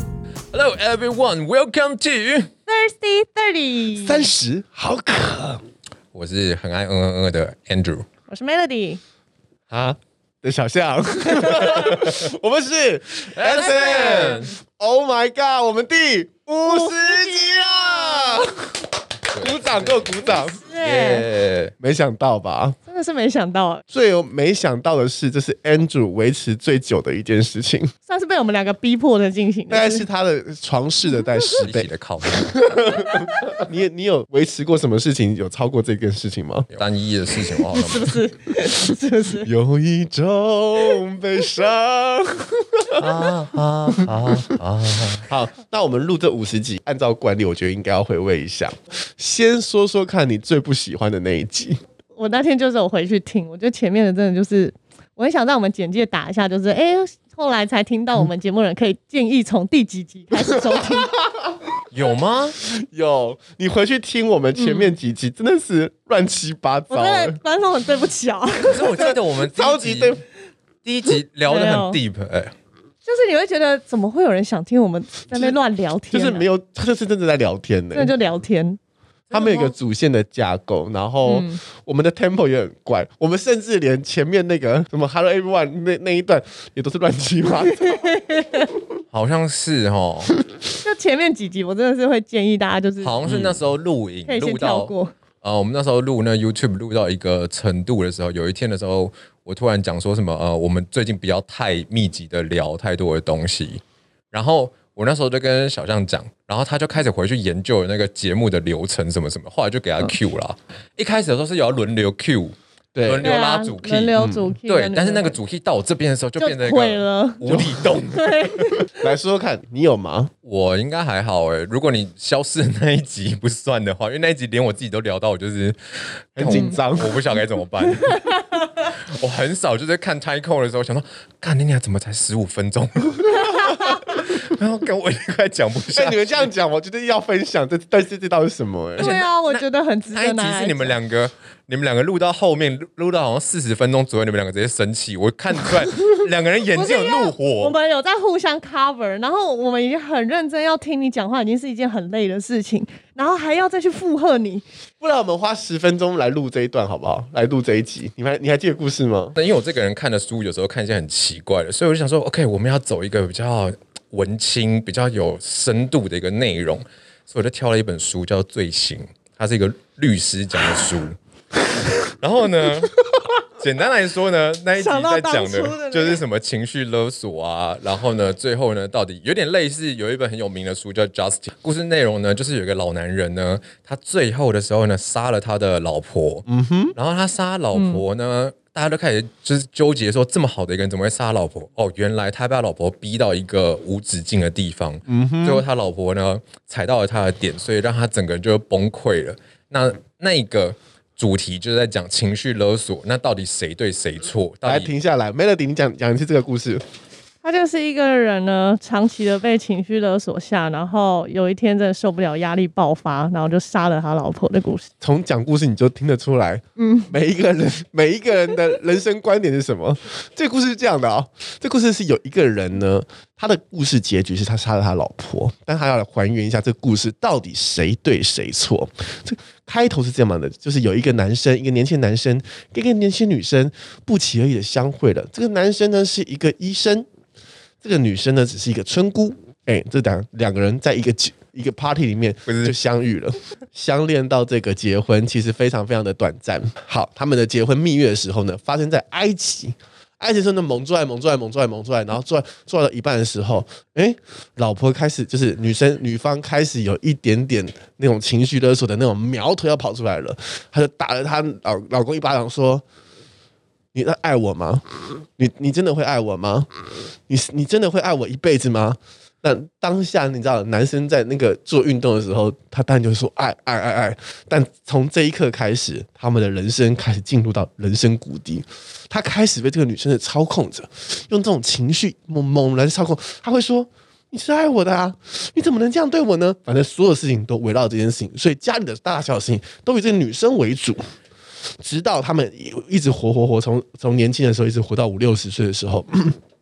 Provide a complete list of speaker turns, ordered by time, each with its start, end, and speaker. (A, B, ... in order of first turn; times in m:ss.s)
0:00.5-0:02.5 A
0:02.7-0:04.3 B
0:04.0-0:05.6 C
0:06.1-0:08.1 A
0:08.3-0:09.0 B
0:09.7-0:18.7 C
0:13.3-0:14.5 A
0:13.6-0:14.5 B
0:16.6-0:18.6 B
0:19.3-0:20.1 A
0:19.3-0:20.6 C
0:20.2-0:21.3 B
0:20.8-0:21.7 A
0:21.8-0:22.8 C
0:22.9-0:23.8 B
0:23.9-0:27.9 C
0:28.1-0:30.1 B
0:29.7-0:36.7 C
0:31.6-0:32.9 A
0:36.7-0:38.2 A
0:37.6-0:39.5 B
0:39.4-0:43.0 C
0:43.0-0:45.3 A
0:45.3-0:51.8 C
0:52.2-1:01.2 B
1:00.5-1:01.6 C
1:01.9-1:02.6 A
1:02.6-1:07.4 C
1:04.6-1:04.9 B
1:06.9-1:09.1 B
1:08.6-1:10.2 A
1:08.8-1:10.2 C
1:10.8-1:12.5 A
1:11.5-1:12.0 B
1:13.1-1:16.5 B
1:15.3-1:15.6 C
1:16.1-1:18.1 C
1:17.9-1:18.8 B
1:19.3-1:19.7 B
1:19.3-1:28.1 C
1:21.2-1:21.6 B
1:27.8-1:28.7 B
1:29.1-1:30.4 A
1:30.8-1:33.2 B
1:33.0-1:58.8 A
1:33.3-1:33.6 C
1:34.3-1:35.1 B
1:53.0-1:53.3 C
1:53.2-1:55.4 B
1:54.2-1:54.5 C
1:56.4-1:57.5 B
1:57.5-1:57.9 C
1:58.1-1:58.9 B
1:58.8-2:00.3 C
2:00.4-2:16.4 A
2:06.4-2:07.2 C
2:06.5-2:06.8 B
2:07.9-2:08.6 B
2:13.4-2:14.0 B
2:15.9-2:19.1 C
2:19.0-2:20.9 B
2:19.0-2:27.7 A
2:26.7-2:34.6 B
2:35.0-2:39.4 C
2:39.4-2:51.2 A
2:52.0-2:53.0 A
2:53.6-3:24.9 A
2:54.8-2:56.2 B
3:06.5-3:07.0 C
3:07.7-3:08.0 B
3:15.1-3:15.6 C
3:24.6-3:26.8 C
3:27.4-3:34.9 B
3:35.0-3:57.1 C
3:36.8-3:37.1 B
3:57.8-4:22.8 C
4:02.5-4:02.8 A
4:23.9-4:26.7 C
4:27.3-4:51.0 C
4:51.8-4:56.4 C